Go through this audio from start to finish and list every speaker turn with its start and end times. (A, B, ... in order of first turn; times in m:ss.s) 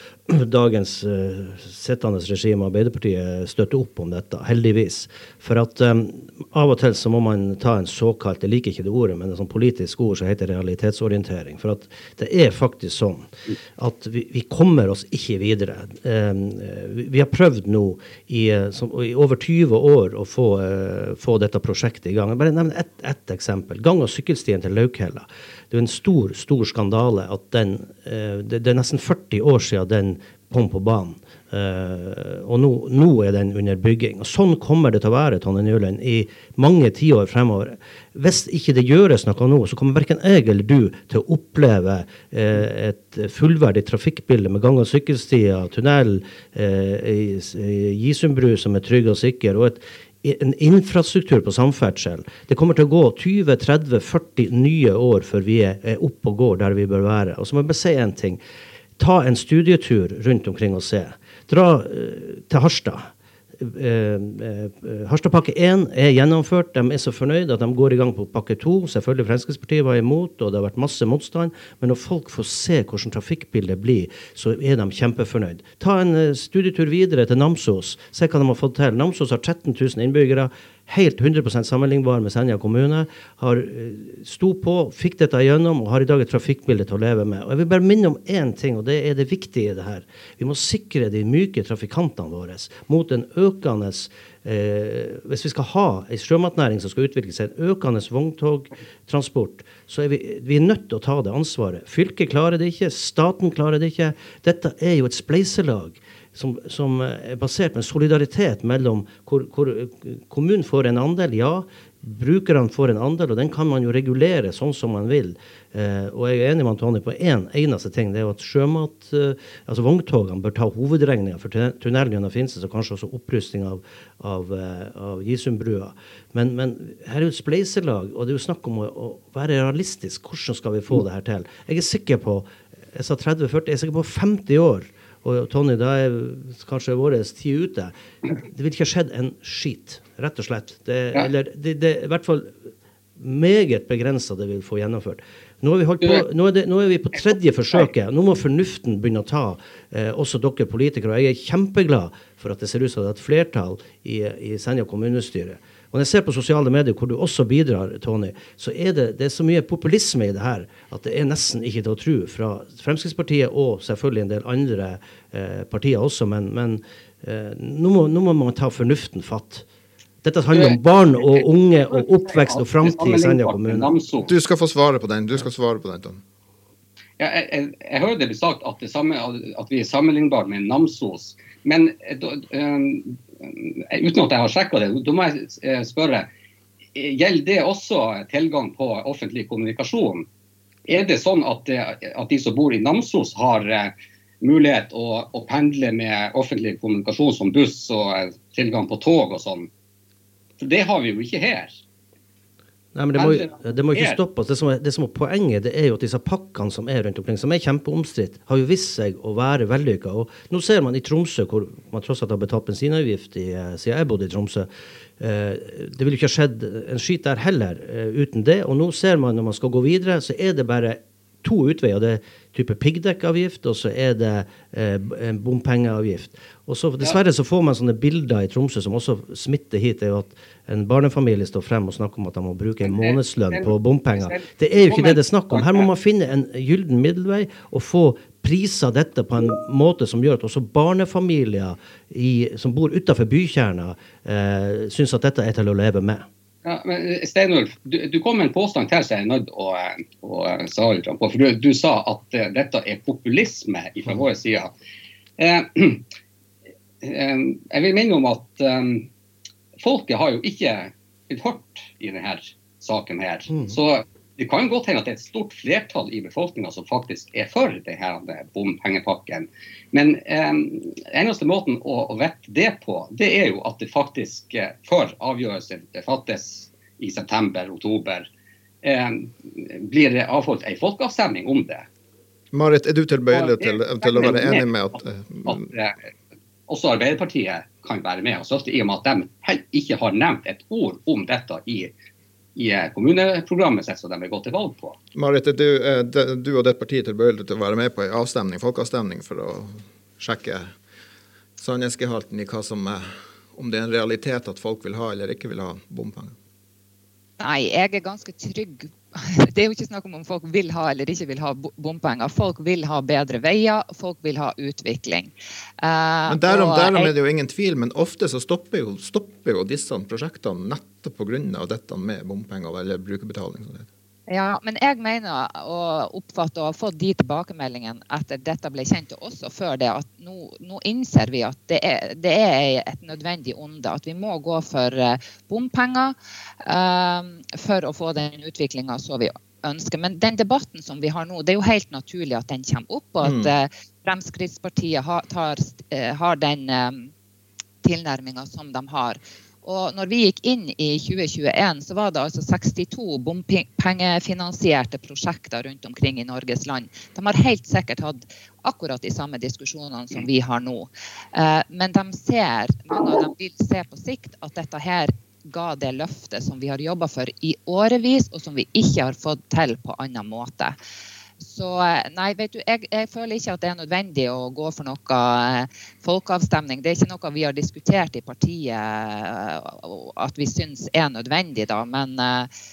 0:00.3-0:58.4 A
0:59.0-2:49.6 A
2:50.2-2:53.9 A
2:50.5-2:54.3 B
2:54.2-2:56.2 C
2:57.2-3:06.3 B
3:06.9-3:10.3 B
3:10.9-3:19.7 B
3:20.6-3:21.8 B
3:22.9-3:34.7 A
3:23.1-3:24.2 B
3:35.2-4:06.3 A
3:52.8-3:55.9 B
4:06.6-4:14.7 B
4:15.4-4:16.0 B
4:17.0-4:19.1 B
4:19.8-4:38.3 B
4:38.8-4:41.8 B
4:42.5-4:45.6 C
4:43.3-4:44.6 B
4:45.4-4:46.0 B
4:46.7-4:51.9 B
4:52.6-4:55.0 B
4:55.1-5:00.7 C
5:01.6-5:06.4 C
5:07.4-5:17.1 D
5:16.3-5:23.9 C
5:24.3-5:47.1 D
5:43.2-5:43.5 C
5:47.8-6:10.8 D
6:11.4-6:22.5 D